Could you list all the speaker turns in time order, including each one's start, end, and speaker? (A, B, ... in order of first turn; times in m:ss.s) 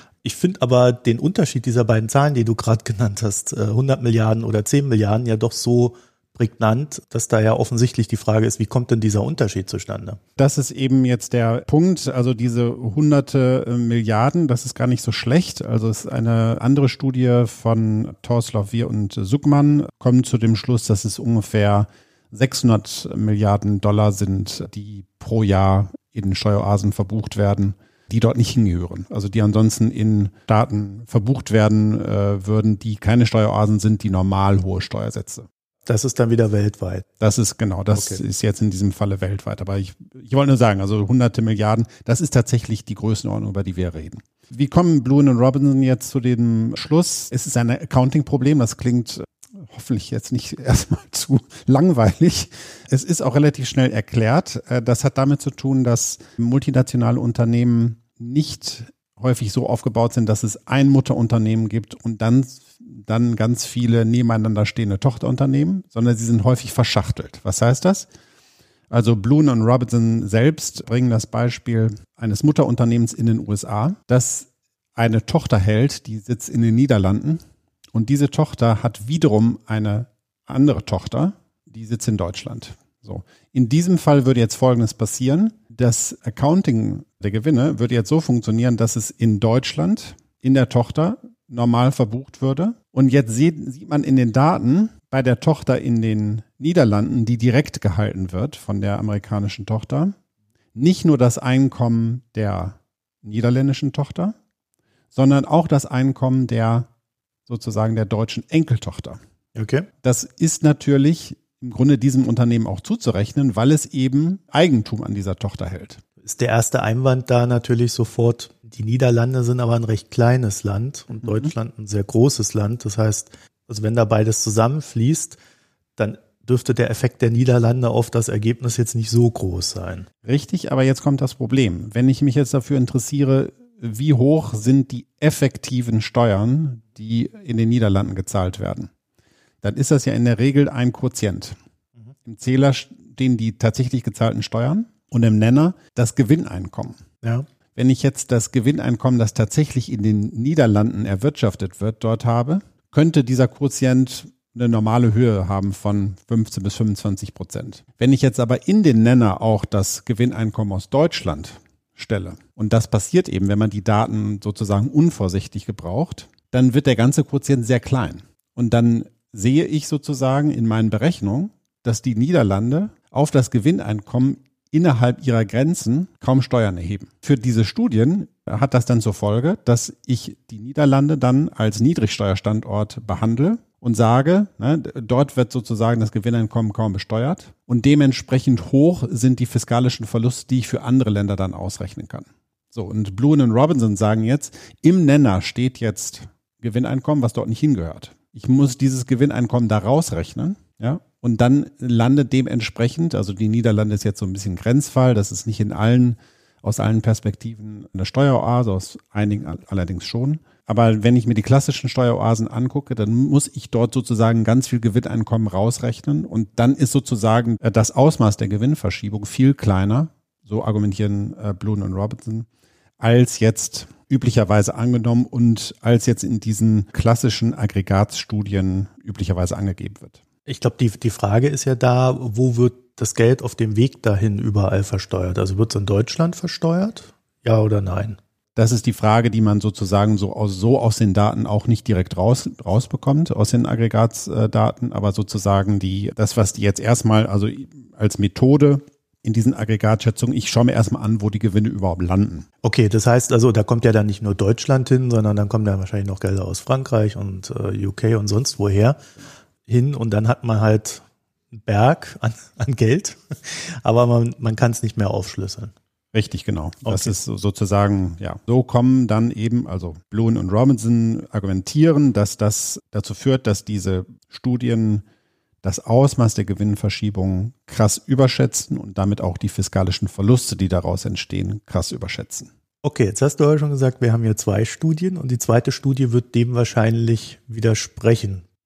0:00.2-0:10.2 A
0:10.4-0:35.5 B
0:35.9-0:37.1 A
0:37.2-1:08.1 B
0:37.9-0:38.2 A
1:08.9-1:17.4 B
1:17.9-1:40.1 B
1:40.8-1:44.4 B
1:45.1-1:46.9 B
1:47.5-1:49.2 B
1:49.6-1:49.9 A
1:50.0-1:56.0 B
1:56.2-2:05.4 A
2:01.2-2:01.5 B
2:06.0-2:10.1 A
2:10.2-2:18.9 B
2:19.6-2:21.6 B
2:22.2-2:27.0 B
2:27.2-2:27.5 A
2:27.8-3:42.5 B
3:43.0-3:50.2 B
3:50.5-3:58.2 A
3:58.6-4:12.5 B
4:12.6-4:19.0 A
4:19.7-4:25.7 A
4:26.1-4:35.0 B
4:26.8-4:27.1 A
4:35.6-4:42.5 B
4:42.8-4:48.4 A